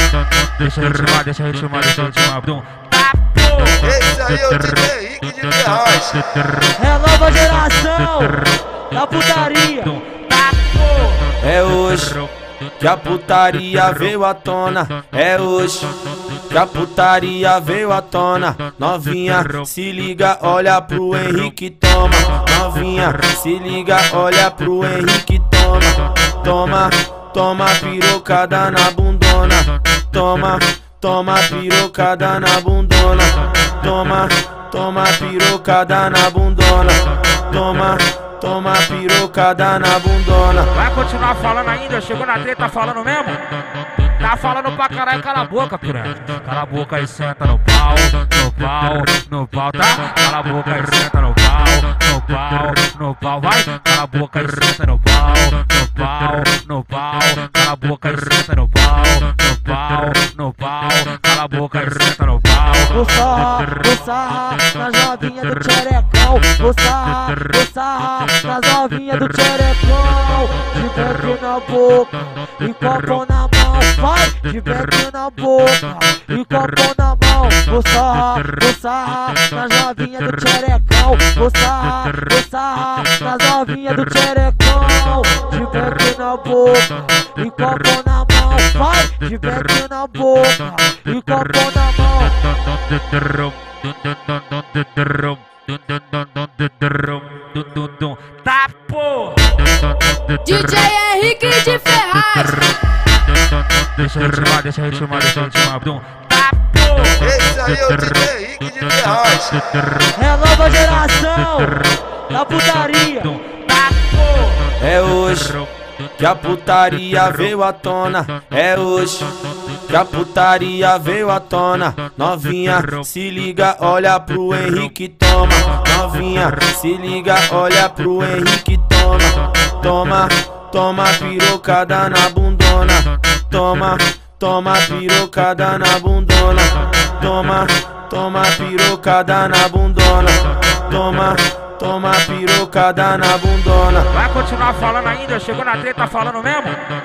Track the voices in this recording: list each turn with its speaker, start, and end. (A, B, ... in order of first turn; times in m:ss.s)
0:00.2-0:03.9 A
0:03.8-0:06.2 B
0:06.7-0:09.9 C
0:09.8-0:11.4 A
0:11.4-0:12.2 D
0:12.8-0:15.9 D
0:16.5-0:40.7 D
0:40.7-0:43.4 A
0:44.2-1:03.0 A
1:02.9-1:32.3 C
1:32.7-1:40.7 A
1:40.4-1:42.8 E
1:43.7-1:48.0 A
1:47.2-1:49.6 B
1:50.1-1:53.3 C
1:53.2-1:54.8 A
1:54.8-1:55.6 D
1:56.2-1:59.3 D
1:59.9-2:24.1 D
2:02.8-2:03.1 A
2:24.1-2:26.8 A